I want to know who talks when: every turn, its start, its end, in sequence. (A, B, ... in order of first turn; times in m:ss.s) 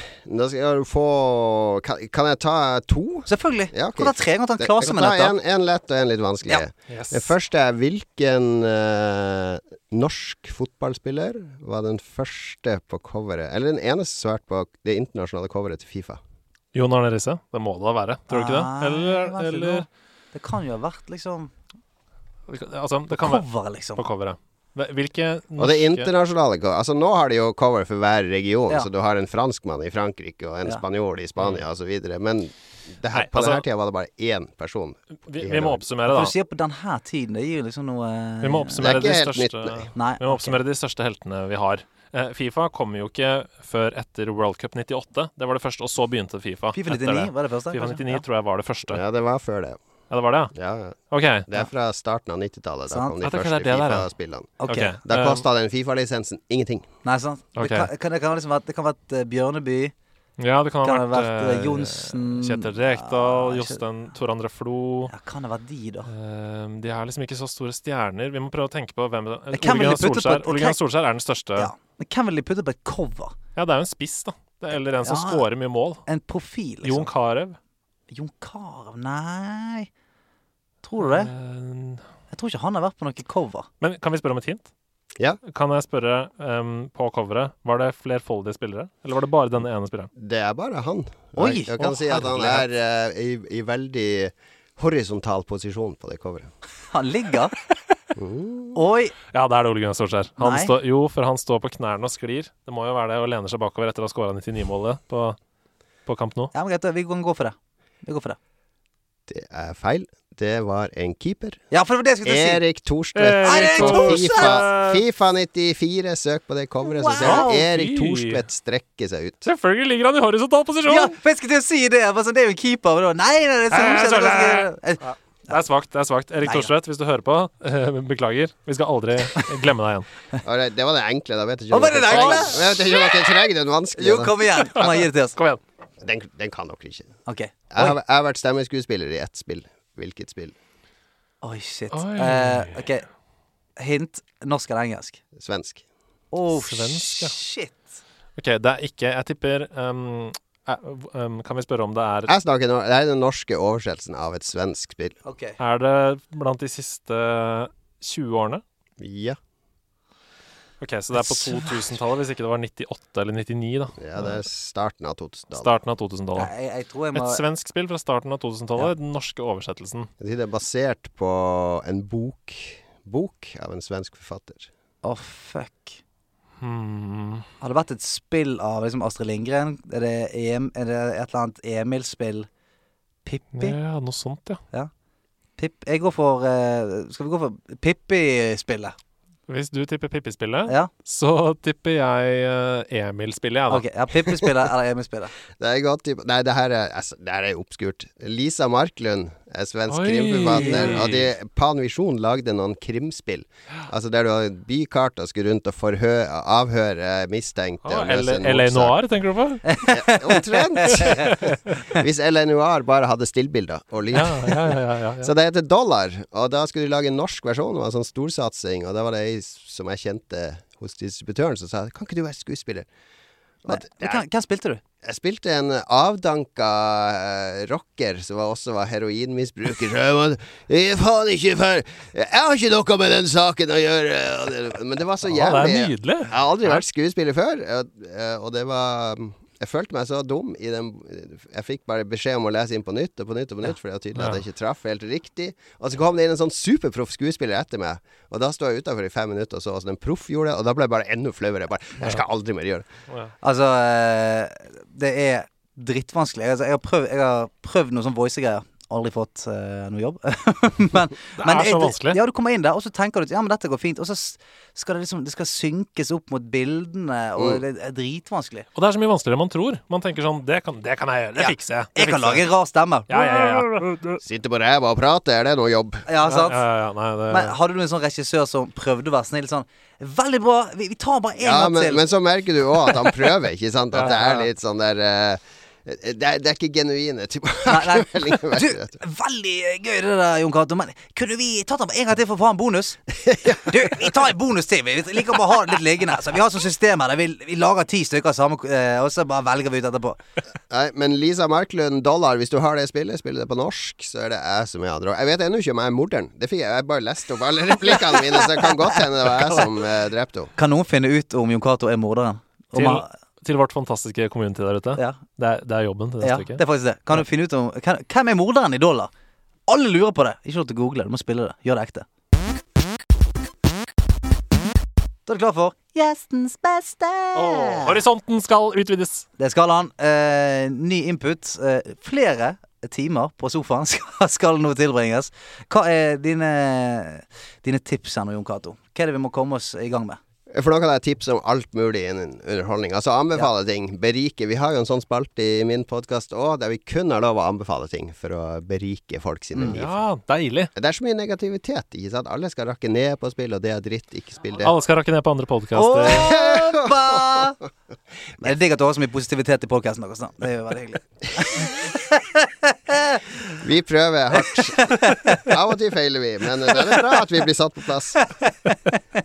0:00.2-0:16.2 A
0:03.3-0:05.4 B
0:06.9-0:07.3 C
0:16.7-0:19.9 C
0:18.3-0:21.5 B
0:22.5-0:26.1 C
0:23.1-0:24.0 B
0:25.6-0:35.8 A
0:33.1-0:33.6 C
0:35.3-0:36.3 C
0:36.1-0:39.0 B
0:38.4-0:49.0 C
0:38.8-0:39.9 A
0:40.0-0:40.6 B
0:46.7-0:48.2 B
0:48.9-0:49.8 A
0:50.1-0:50.6 C
0:50.6-0:51.0 A
0:51.1-0:51.5 C
0:51.5-0:56.9 A
0:52.9-0:53.2 B
0:53.2-0:54.1 C
0:54.6-0:54.9 B
0:54.6-0:55.4 C
0:57.0-0:59.9 B
0:57.6-0:57.9 C
1:00.4-1:05.1 C
1:00.8-1:03.8 B
1:05.1-1:06.1 B
1:06.1-1:11.7 C
1:09.5-1:10.8 B
1:11.6-1:13.4 B
1:13.6-1:16.0 C
1:15.0-1:15.4 B
1:16.1-1:17.1 B
1:16.8-1:17.6 C
1:18.1-1:19.9 B
1:20.8-1:21.3 B
1:21.0-1:22.0 C
1:22.3-1:23.7 B
1:23.8-1:24.7 C
1:25.5-1:30.1 C
1:30.2-1:36.5 A
1:31.4-1:32.6 B
1:36.9-1:37.6 B
1:38.2-1:38.8 A
1:38.8-1:39.1 B
1:39.3-1:45.4 C
1:40.4-1:40.7 B
1:46.1-1:46.5 C
1:46.5-1:48.4 B
1:49.3-1:51.6 A
1:51.7-1:52.6 B
1:52.2-1:59.4 A
1:53.2-1:55.0 C
1:53.4-1:54.6 B
1:56.8-1:57.6 B
1:57.2-1:58.4 C
1:59.4-2:01.1 C
2:00.9-2:05.6 B
2:03.7-2:10.1 C
2:06.4-2:06.7 B
2:10.4-2:14.4 A
2:11.7-2:12.6 B
2:12.1-2:12.8 C
2:14.0-2:15.4 B
2:14.8-2:15.6 C
2:16.0-2:17.2 A
2:17.3-2:17.9 B
2:17.7-2:20.6 A
2:21.4-2:23.1 B
2:21.9-2:22.8 C
2:23.8-2:25.2 B
2:25.4-2:25.8 A
2:26.3-2:27.9 B
2:26.5-2:27.4 C
2:28.4-2:32.3 C
2:32.3-2:35.2 A
2:35.2-2:35.6 B
2:35.6-2:38.6 C
2:39.0-2:39.4 A
2:40.8-2:44.4 C
2:41.2-2:41.8 B
2:44.0-2:45.7 A
2:45.6-2:46.5 C
2:46.4-2:47.4 B
2:47.1-2:50.1 C
2:50.2-2:54.7 A
2:55.0-2:56.0 B
2:56.6-2:57.5 C
2:57.6-3:02.5 B
3:03.2-3:03.8 B
3:03.6-3:04.6 C
3:05.6-3:09.0 B
3:09.5-3:14.5 C
3:13.7-3:15.3 B
3:15.6-3:29.0 A
3:19.9-3:21.3 C
3:20.6-3:21.0 B
3:27.8-3:29.8 C
3:29.7-3:31.5 B
3:29.9-3:42.9 A
3:34.1-3:35.3 C
3:43.6-3:44.2 A
3:43.7-3:44.8 B
3:45.0-4:12.9 A
3:55.3-3:56.8 C
4:04.2-4:04.4 C
4:13.4-4:28.7 B
4:21.4-4:22.2 C
4:28.8-4:32.4 C
4:31.4-4:33.7 B
4:33.1-4:34.2 C
4:34.2-4:36.1 A
4:36.1-4:36.6 B
4:36.3-4:37.5 C
4:37.3-4:42.0 B
4:41.4-4:49.0 A
4:44.0-4:44.4 C
4:47.7-5:00.2 B
4:53.2-4:54.1 A
5:00.7-5:10.5 A
5:10.6-5:13.1 B
5:12.7-5:16.6 C
5:16.2-5:19.1 B
5:19.7-5:22.1 B
5:25.3-5:28.0 B
5:27.4-5:29.3 C
5:29.4-5:40.2 B
5:40.5-5:50.0 A
5:49.5-5:49.8 B
5:49.8-5:50.7 C
5:50.8-5:54.8 A
5:54.6-5:56.3 C
5:55.7-5:57.6 B
5:56.1-5:57.5 A
5:58.4-6:03.2 B
6:03.5-6:08.3 A
6:04.4-6:05.5 B
6:06.7-6:07.0 B
6:08.3-6:09.0 B